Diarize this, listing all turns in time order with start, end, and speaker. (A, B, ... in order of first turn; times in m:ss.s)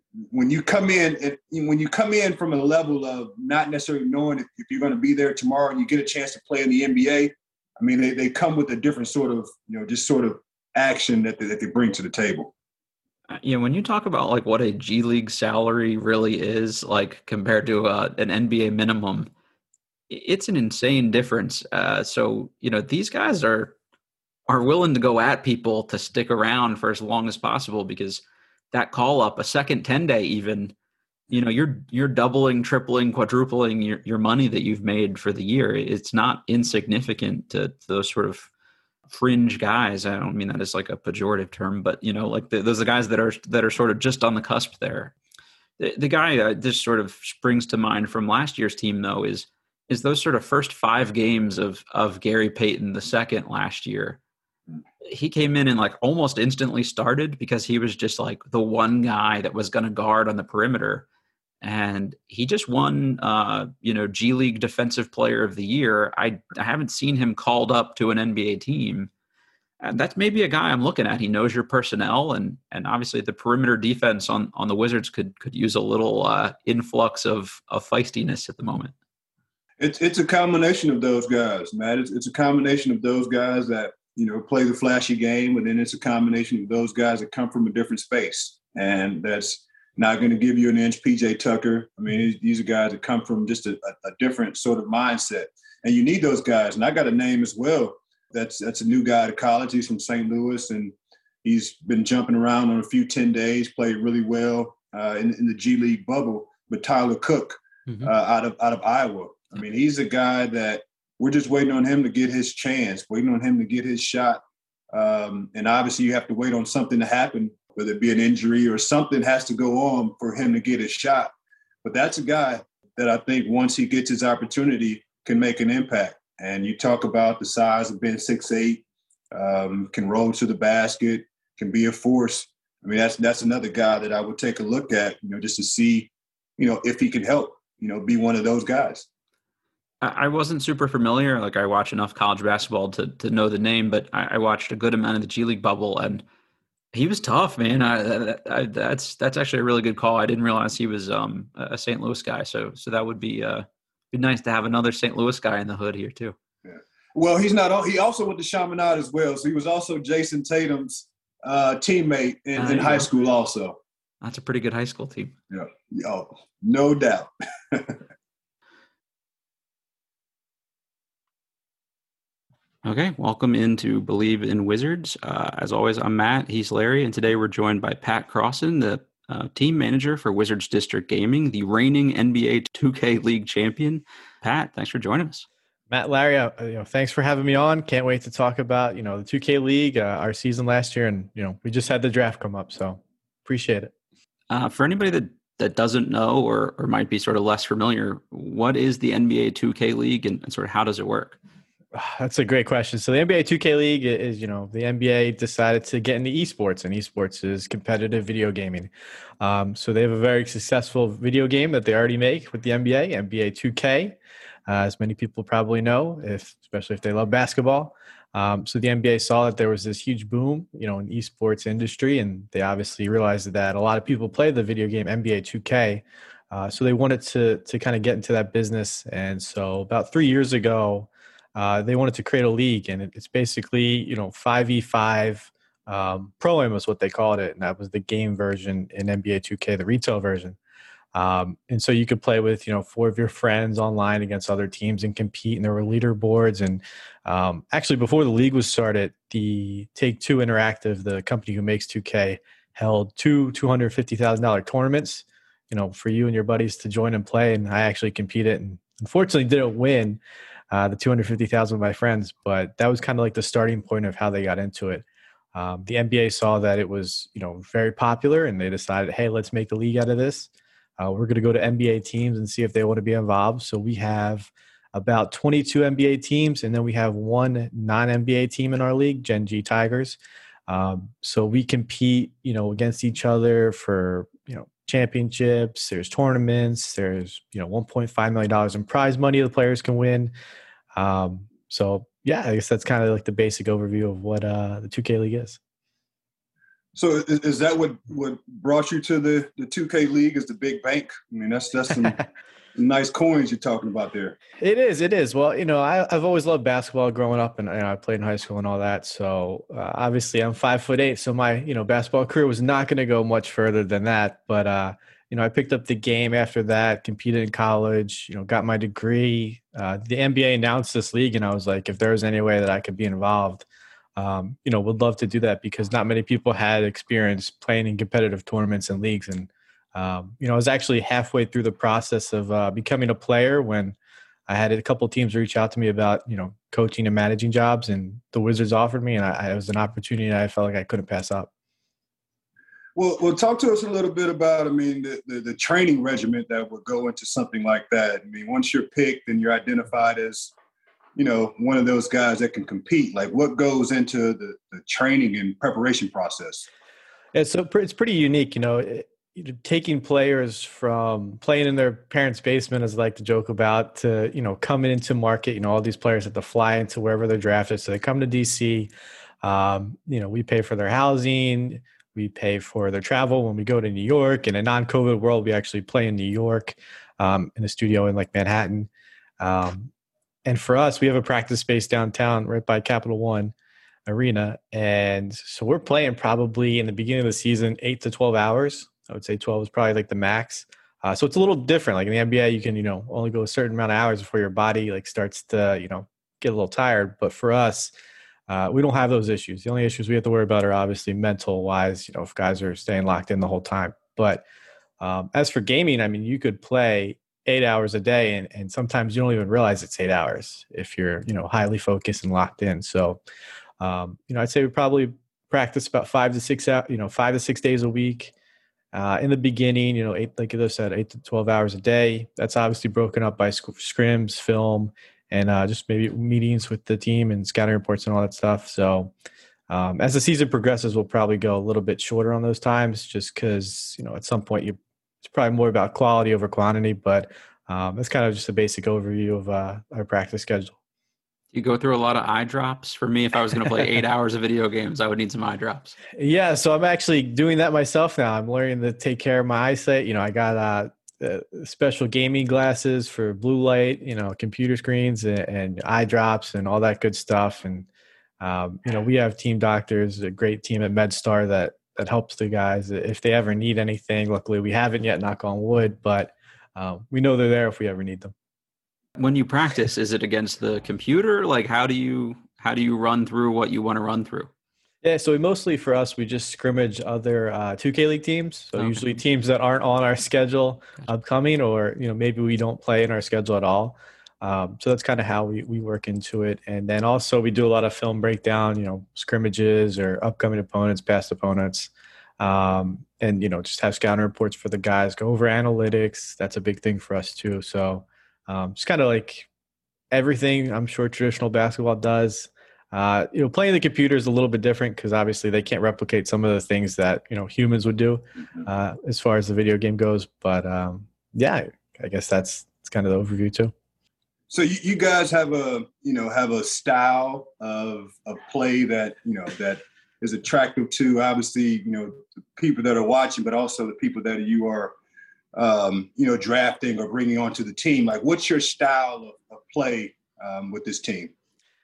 0:00.3-0:12.5 A
0:13.3-0:19.3 B
0:20.1-0:23.7 B
0:24.5-0:30.7 B
0:31.3-0:38.5 B
0:39.1-0:45.1 B
0:45.8-0:54.2 B
0:55.0-1:01.0 B
1:01.6-1:09.1 B
1:09.8-1:18.9 B
1:19.8-2:01.3 A
2:01.8-2:19.0 A
2:20.0-2:26.2 B
2:26.9-2:36.3 B
2:36.6-2:43.8 A
2:42.6-2:43.1 B
2:44.2-2:45.3 B
2:45.5-2:48.0 A
2:52.8-3:05.4 B
3:05.9-3:13.9 C
3:14.5-3:21.4 B
3:21.9-4:00.6 C
4:01.1-4:20.2 C
4:20.7-4:50.3 C
4:50.9-4:55.6 C
4:56.9-5:02.2 A
5:02.8-5:04.4 A
5:04.6-5:23.6 C
5:24.2-5:34.0 C
5:34.5-5:41.5 C
5:43.0-5:50.5 A
5:51.2-5:56.6 A
5:57.3-6:08.9 C
6:09.4-6:18.9 C
6:19.4-6:19.9 C
6:20.4-6:23.5 C
6:24.0-6:37.9 C
6:38.5-6:44.4 C
6:45.0-6:53.2 C
6:53.8-6:58.3 C
6:58.9-7:09.1 C
7:09.7-7:20.7 C
7:21.5-7:26.0 B
7:26.2-7:37.9 C
7:38.4-7:48.3 C
7:49.2-7:54.5 B
7:55.0-8:19.5 C
7:58.8-7:59.0 B
8:20.1-8:33.7 C
8:34.5-8:44.9 A
8:45.5-8:51.3 A